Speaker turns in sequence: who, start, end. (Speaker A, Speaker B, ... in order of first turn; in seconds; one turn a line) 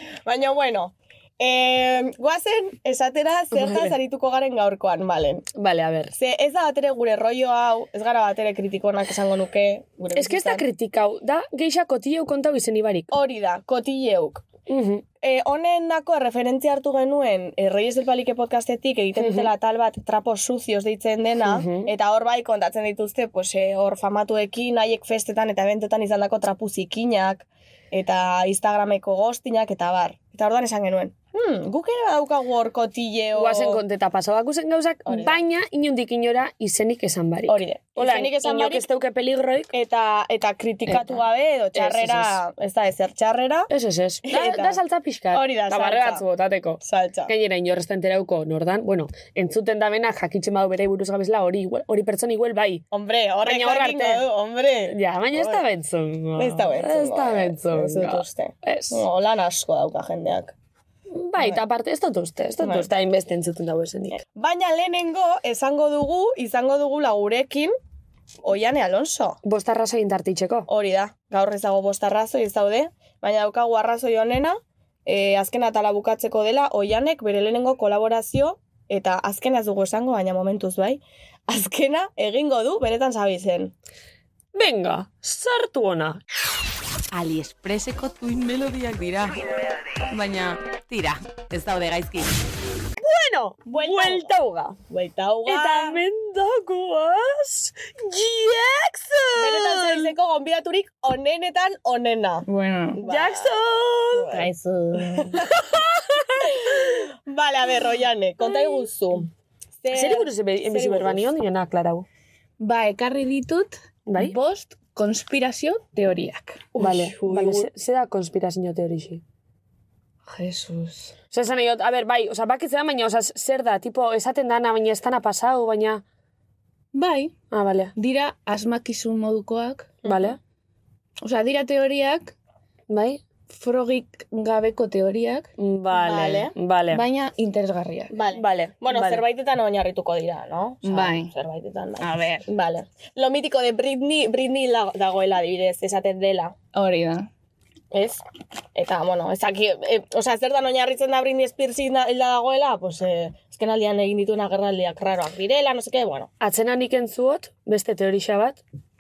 Speaker A: 0.2-5.5
Speaker B: 3.5-3.9
Speaker B: 5.5-6.1
Speaker A: 6.1-10.6
Speaker B: 10.1-13.2
Speaker A: 13.1-14.5
Speaker B: 14.7-15.0
Speaker A: 15.2-33.8
Speaker B: 19.1-19.5
Speaker B: 21.4-21.9
Speaker B: 33.3-39.7
Speaker A: 35.0-35.4
Speaker A: 37.5-38.8
Speaker A: 39.7-43.7
Speaker B: 40.9-41.2
Speaker B: 41.7-42.4
Speaker B: 43.7-52.8
Speaker A: 44.2-44.8
Speaker A: 45.3-46.2
Speaker A: 46.8-47.3
Speaker A: 52.9-55.6
Speaker B: 53.4-54.2
Speaker B: 54.9-59.0
Speaker A: 56.4-60.5
Speaker B: 61.1-64.2
Speaker A: 62.6-62.9
Speaker A: 64.1-67.7
Speaker A: 68.4-69.4
Speaker B: 69.4-70.7
Speaker A: 70.7-83.7
Speaker B: 84.5-86.2
Speaker C: 87.1-89.4
Speaker C: 90.1-92.3
Speaker B: 93.0-94.8
Speaker A: 93.7-96.0
Speaker B: 95.5-100.1
Speaker A: 99.3-104.5
Speaker D: 102.5-103.0
Speaker B: 103.1-104.4
Speaker D: 104.3-105.4
Speaker A: 105.2-105.8
Speaker B: 105.8-107.0
Speaker A: 106.4-109.3
Speaker A: 109.8-111.3
Speaker B: 109.9-112.0
Speaker D: 112.6-116.7
Speaker B: 114.0-114.3
Speaker A: 116.7-117.7
Speaker B: 116.8-119.2
Speaker D: 120.3-121.1
Speaker B: 121.3-126.0
Speaker D: 126.9-127.3
Speaker B: 127.5-127.9
Speaker D: 128.0-129.9
Speaker A: 130.0-130.4
Speaker B: 130.0-130.4
Speaker D: 131.2-132.3
Speaker B: 132.9-133.2
Speaker D: 133.5-135.5
Speaker B: 135.6-137.0
Speaker A: 135.9-136.5
Speaker D: 136.9-138.2
Speaker A: 138.1-146.5
Speaker B: 138.3-139.2
Speaker D: 140.8-141.3
Speaker D: 142.0-142.4
Speaker D: 146.7-147.3
Speaker A: 147.9-148.2
Speaker A: 148.7-156.3
Speaker B: 156.4-158.6